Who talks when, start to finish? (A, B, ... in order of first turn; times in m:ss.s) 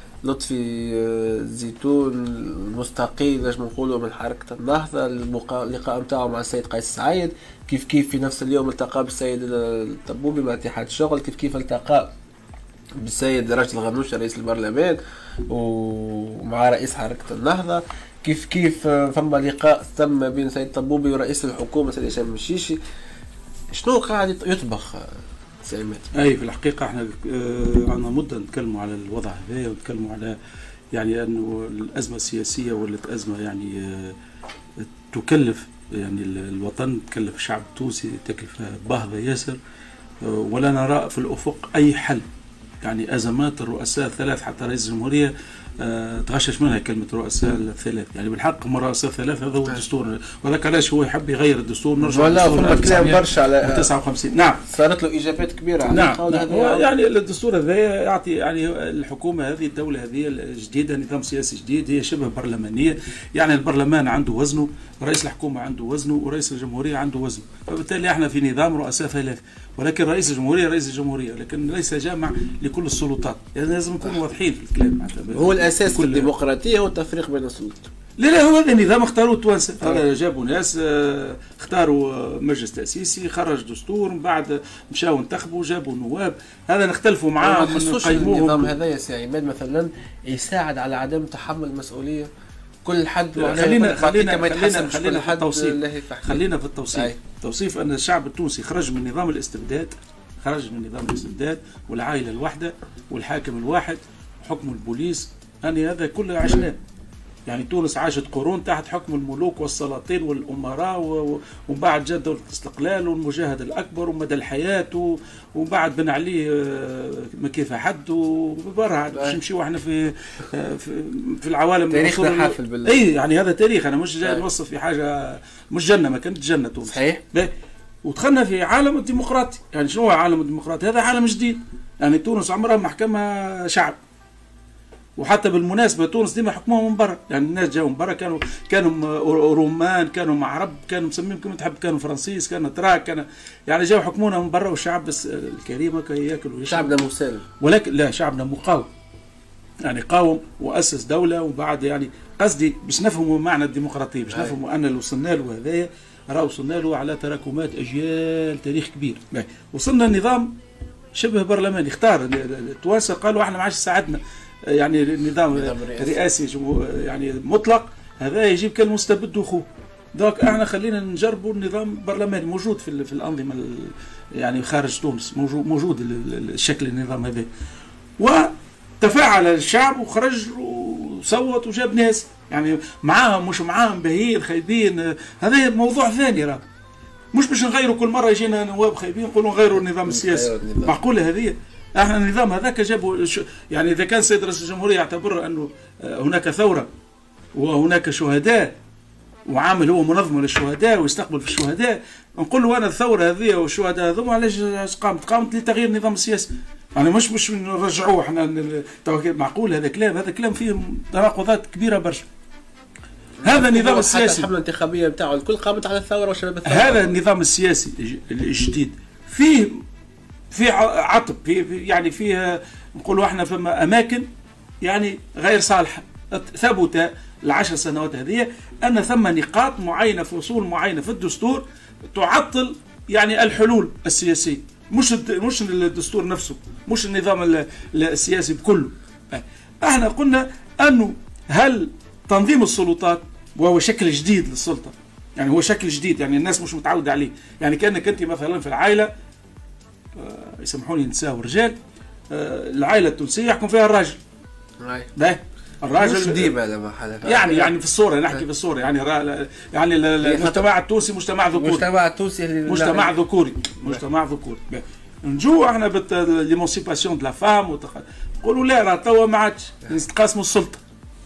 0:00.2-0:12.1 A
0:13.0-0:22.8 A
0:23.7-0:26.1 A
0:26.1-0:30.4 B
0:30.9-0:34.2 B
0:34.8-0:39.6 B
0:40.2-0:42.2 B
0:42.8-0:54.6 B
0:52.0-0:53.9 A
0:54.6-0:56.9 A
0:55.9-1:16.3 B
1:15.3-1:17.9 A
1:18.2-1:28.7 B
1:27.4-1:32.3 A
1:32.8-1:37.2 A
1:33.3-1:46.8 B
1:47.5-2:07.5 B
1:59.1-1:59.4 A
2:01.9-2:03.1 A
2:06.8-2:07.2 A
2:08.0-2:14.0 B
2:15.2-2:26.9 B
2:26.7-2:27.4 A
2:27.6-2:28.9 B
2:29.8-2:40.6 B
2:34.3-2:34.6 A
2:41.1-2:57.5 B
2:45.5-2:46.2 A
2:58.2-3:06.6 B
3:07.3-3:16.9 B
3:09.7-3:11.0 A
3:17.5-3:18.8 B
3:19.5-3:32.3 B
3:33.4-3:37.2 A
3:33.4-3:34.5 B
3:36.6-3:39.8 B
3:40.5-3:44.3 B
3:44.8-4:09.1 B
4:10.1-4:11.7 B
4:12.3-4:14.2 B
4:14.8-4:15.1 A
4:15.2-4:16.5 B
4:16.0-4:17.7 A
4:17.2-4:21.9 B
4:20.2-4:20.6 A
4:21.5-4:23.2 A
4:22.6-4:30.8 B